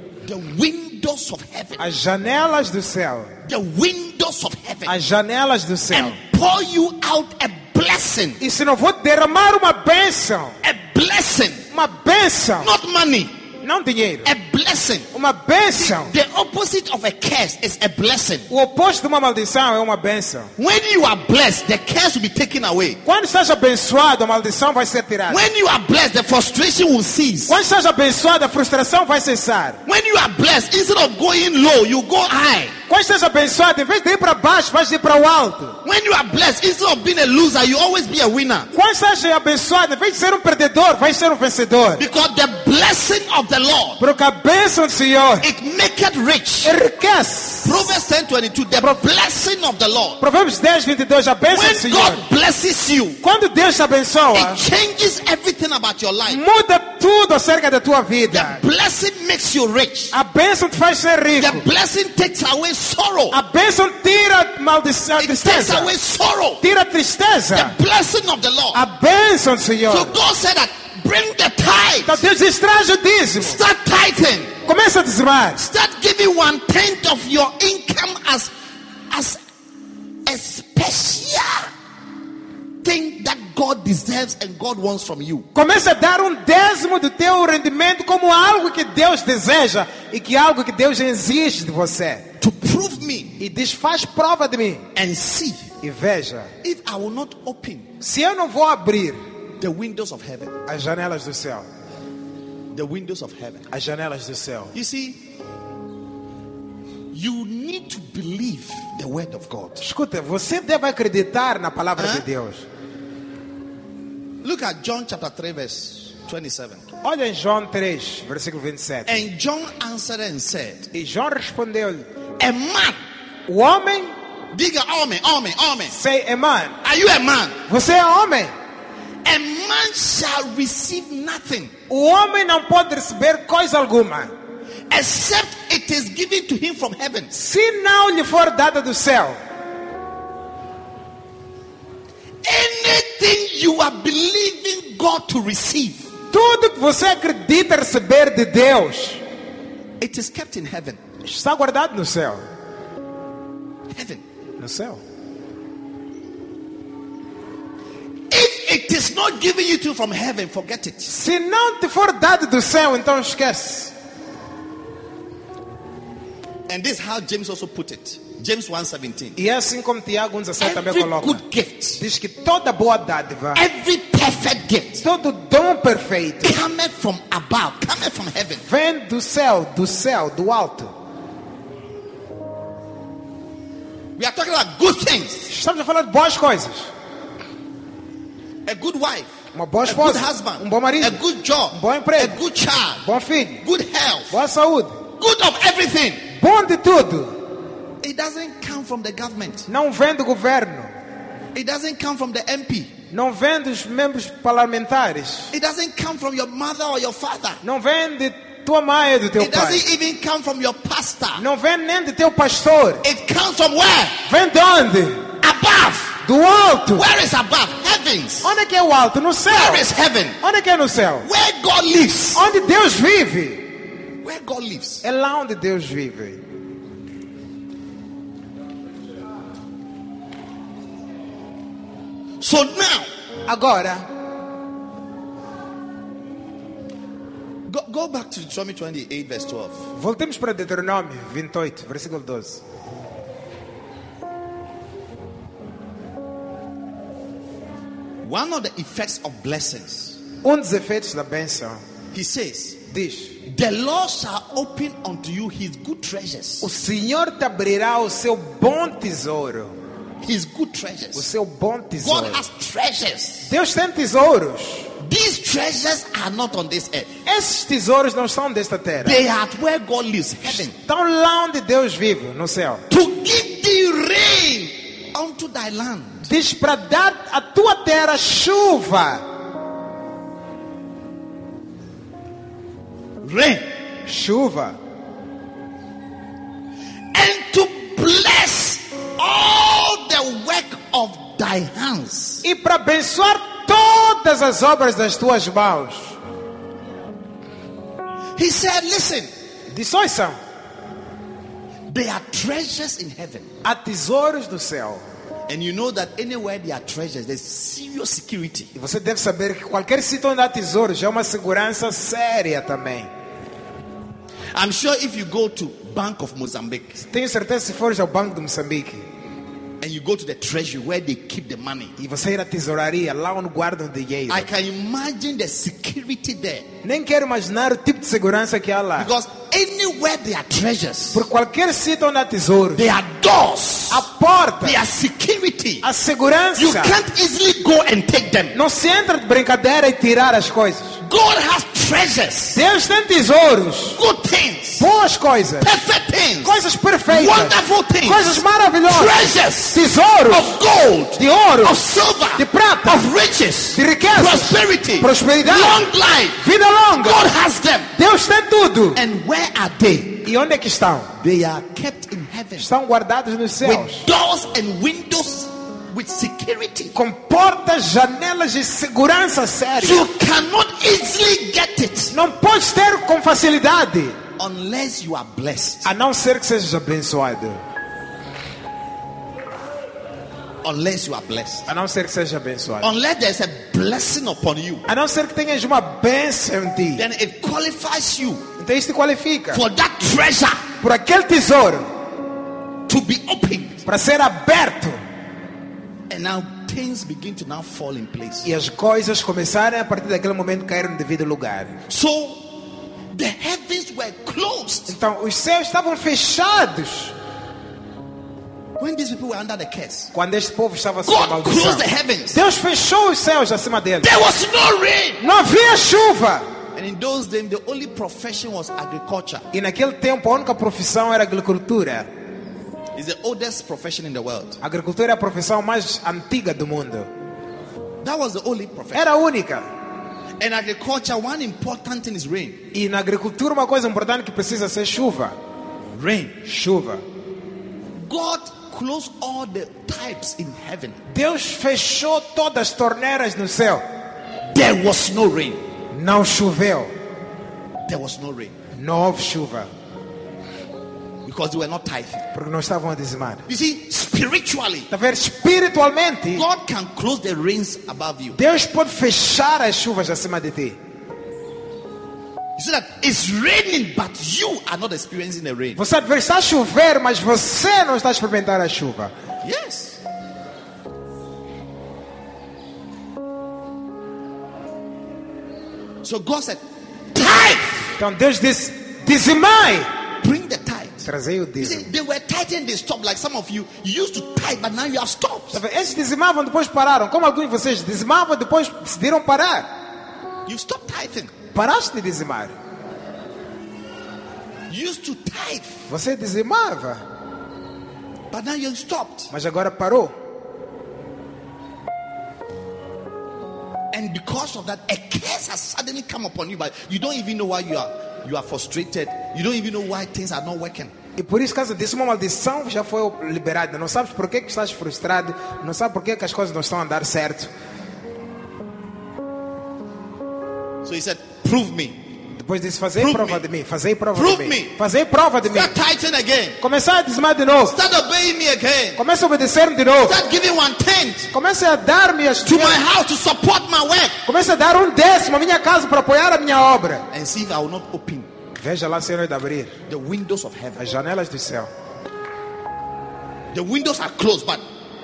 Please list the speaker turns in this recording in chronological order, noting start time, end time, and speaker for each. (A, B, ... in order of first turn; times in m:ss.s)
0:00.2-0:01.8 A
0:01.8-0:03.3 B
0:03.4-0:04.9 A
0:04.8-0:06.2 B
0:05.9-0:08.4 A
0:08.4-0:10.6 B
0:10.6-0:11.6 A
0:11.7-0:12.7 B
0:12.6-0:13.4 A
0:13.6-0:14.3 B
0:14.2-0:15.1 A
0:15.1-0:16.1 B
0:15.7-0:18.5 A
0:18.5-0:20.5 B
0:20.6-0:23.0 A
0:23.0-0:25.4 B
0:25.3-0:27.6 A
0:27.5-0:29.8 B
0:29.8-0:32.8 A
0:32.9-0:35.8 B
0:35.8-0:38.7 A
0:38.7-0:42.0 B
0:42.0-0:44.0 A
0:44.0-0:45.5 B
0:45.4-0:46.7 A
0:46.6-0:47.9 B
0:47.6-0:50.2 A
0:50.2-0:52.2 B
0:51.5-0:53.2 A
0:53.2-0:54.6 B
0:54.3-0:56.4 A
0:56.3-0:58.6 B
0:58.3-1:00.1 A
1:00.1-1:01.6 B
1:01.4-1:03.4 A
1:03.3-1:05.9 B
1:05.2-1:06.6 A
1:06.6-1:07.8 B
1:07.5-1:08.8 A
1:08.7-1:10.2 B
1:09.8-1:12.2 A
1:12.0-1:13.6 B
1:13.4-1:14.5 A
1:14.6-1:15.6 B
1:15.6-1:18.5 A
1:19.1-1:19.4 A
1:20.2-1:21.7 A
1:22.8-1:25.4 A
1:25.5-1:32.3 B
1:32.4-1:33.4 A
1:33.4-1:34.9 B
1:34.9-1:35.6 A
1:35.8-1:36.5 B
1:36.6-1:37.9 A
1:38.0-1:39.2 B
1:39.6-1:40.6 A
1:40.6-1:41.7 B
1:42.7-1:43.6 A
1:43.7-1:44.7 B
1:44.7-1:45.2 A
1:47.1-1:49.8 A
1:49.8-1:52.6 B
1:52.0-1:52.2 A
1:54.4-1:56.8 A
1:57.0-1:59.1 B
1:59.0-2:00.9 A
2:00.9-2:02.0 B
2:02.4-2:03.0 A
2:03.5-2:04.1 B
2:04.5-2:06.0 A
2:05.9-2:06.8 B
2:06.8-2:07.6 A
2:07.7-2:08.5 B
2:09.2-2:11.7 A
2:11.9-2:14.3 B
2:14.9-2:17.3 A
2:17.3-2:19.4 B
2:22.4-2:26.0 A
2:26.3-2:29.2 B
2:30.0-2:31.0 A
2:31.2-2:32.4 B
2:33.9-2:34.2 A
2:34.6-2:35.0 B
2:38.3-2:41.1 A
2:41.1-2:43.9 B
2:46.7-2:49.4 A
2:49.4-2:51.4 B
2:50.6-2:52.0 A
2:52.0-2:53.6 B
2:53.5-2:55.0 A
2:55.0-2:56.6 B
2:56.4-2:58.6 A
2:58.6-3:00.9 B
3:04.2-3:05.5 A
3:05.5-3:06.9 B
3:08.6-3:09.3 A
3:09.5-3:12.4 B
3:09.8-3:13.0 A
3:13.0-3:13.6 B
3:13.6-3:14.4 A
3:14.3-3:15.0 B
3:15.2-3:16.2 A
3:16.3-3:17.4 B
3:18.0-3:19.7 A
3:19.7-3:20.9 B
3:21.5-3:22.9 A
3:23.1-3:25.5 B
3:25.5-3:27.6 A
3:27.6-3:29.8 B
3:29.4-3:31.4 A
3:31.4-3:33.0 B
3:33.0-3:34.2 A
3:34.2-3:35.3 B
3:35.4-3:36.2 A
3:36.2-3:37.1 B
3:36.9-3:38.6 A
3:38.4-3:39.9 B
3:39.5-3:40.4 A
3:40.4-3:41.3 B
3:41.2-3:42.4 A
3:42.3-3:43.7 B
3:44.2-3:45.0 A
3:45.0-3:46.4 B
3:52.4-3:53.1 A
3:53.4-3:54.1 B
3:57.7-3:59.9 A
3:59.9-4:02.6 B
4:08.2-4:10.2 A
4:10.4-4:11.8 B
4:12.1-4:12.8 A
4:12.9-4:13.4 B
4:13.4-4:16.7 A
4:16.6-4:19.7 B
4:20.2-4:21.3 A
4:21.1-4:22.4 B
4:22.0-4:23.5 A
4:23.4-4:24.9 B
4:25.0-4:27.1 A
4:27.2-4:29.2 B
4:29.0-4:30.7 A
4:30.5-4:32.8 B
4:32.9-4:36.3 A
4:36.3-4:39.2 B
4:43.2-4:43.7 A
4:44.0-4:44.8 B
4:47.1-4:52.4 A
4:52.4-4:56.2 B
4:58.4-4:59.3 A
4:59.7-5:00.4 B
5:01.9-5:03.5 A
5:03.6-5:05.0 B
5:05.5-5:08.7 A
5:08.7-5:13.1 B
5:14.5-5:17.0 A
5:17.0-5:19.0 B
5:19.8-5:21.9 A
5:22.0-5:24.5 B
5:24.3-5:26.7 A
5:26.8-5:29.1 B
5:29.0-5:31.3 A
5:31.1-5:32.8 B
5:32.7-5:34.1 A
5:33.9-5:34.8 B
5:34.6-5:35.9 A
5:35.8-5:37.0 B
5:36.6-5:38.6 A
5:38.5-5:41.0 B
5:41.0-5:42.6 A
5:42.5-5:44.0 B
5:43.9-5:44.8 A
5:44.8-5:45.8 B
5:45.6-5:56.4 A
5:46.4-5:50.6 B
5:51.2-5:51.8 B
5:52.3-5:53.1 B
5:53.7-5:57.3 B
5:56.9-5:57.9 A
5:57.9-5:59.0 B
5:58.9-6:00.3 A
6:00.2-6:01.1 B
6:01.2-6:02.7 A
6:02.6-6:04.0 B
6:03.6-6:07.0 A
6:06.9-6:10.1 B
6:09.8-6:12.2 A
6:12.1-6:14.2 B
6:14.4-6:15.9 A
6:15.8-6:17.6 B
6:20.6-6:21.7 A
6:21.7-6:22.9 B
6:22.8-6:24.8 A
6:24.9-6:27.0 B
6:27.0-6:28.5 A
6:28.6-6:29.6 B
6:29.5-6:30.6 A
6:30.8-6:31.9 B
6:32.9-6:33.9 A
6:33.8-6:35.0 B
6:36.1-6:38.5 A
6:38.4-6:41.7 B
6:41.9-6:42.6 A
6:43.1-6:45.0 A
6:44.9-6:47.1 B
6:48.8-6:50.1 A
6:50.1-6:54.1 B
6:51.0-6:52.4 A
6:54.0-6:55.2 A
6:55.2-6:56.5 B
6:56.7-6:59.4 A
6:59.5-7:02.1 B
7:02.9-7:04.6 A
7:04.6-7:07.1 B
7:08.0-7:09.1 A
7:08.9-7:09.7 B
7:10.4-7:12.6 A
7:12.7-7:15.4 B
7:15.9-7:16.4 A
7:16.4-7:17.0 B
7:18.0-7:21.0 A
7:21.1-7:23.8 B
7:24.5-7:25.6 A
7:25.9-7:26.9 B
7:27.8-7:28.5 A
7:28.7-7:29.7 B
7:31.2-7:32.3 A
7:32.3-7:33.4 B
7:33.5-7:34.9 A
7:34.9-7:36.4 B
7:36.3-7:38.4 A
7:38.3-7:40.8 B
7:42.6-7:45.8 A
7:45.8-7:49.1 B
7:49.4-7:50.0 A
7:56.0-7:56.6 A
7:57.1-7:57.9 A
7:58.0-7:59.9 B
8:00.2-8:01.1 A
8:01.0-8:01.9 B
8:01.6-8:05.6 A
8:05.5-8:09.7 B
8:10.4-8:11.3 A
8:11.5-8:12.5 B
8:14.7-8:15.8 A
8:15.9-8:17.0 B
8:18.3-8:19.3 A
8:19.3-8:20.1 B
8:23.9-8:30.9 A
8:31.2-8:37.5 B
8:40.8-8:42.0 A
8:42.3-8:45.7 B
8:43.0-8:43.5 A
8:44.1-8:44.8 A
8:45.5-8:46.6 A
8:46.6-8:47.8 B
8:47.6-8:49.0 A
8:49.0-8:50.2 B
8:50.0-8:51.3 A
8:51.3-8:52.8 B
8:52.4-8:54.2 A
8:54.2-8:57.0 B
8:57.1-8:58.3 A
8:58.6-8:59.8 B
8:59.9-9:00.8 A
9:00.8-9:01.7 B
9:03.5-9:04.6 A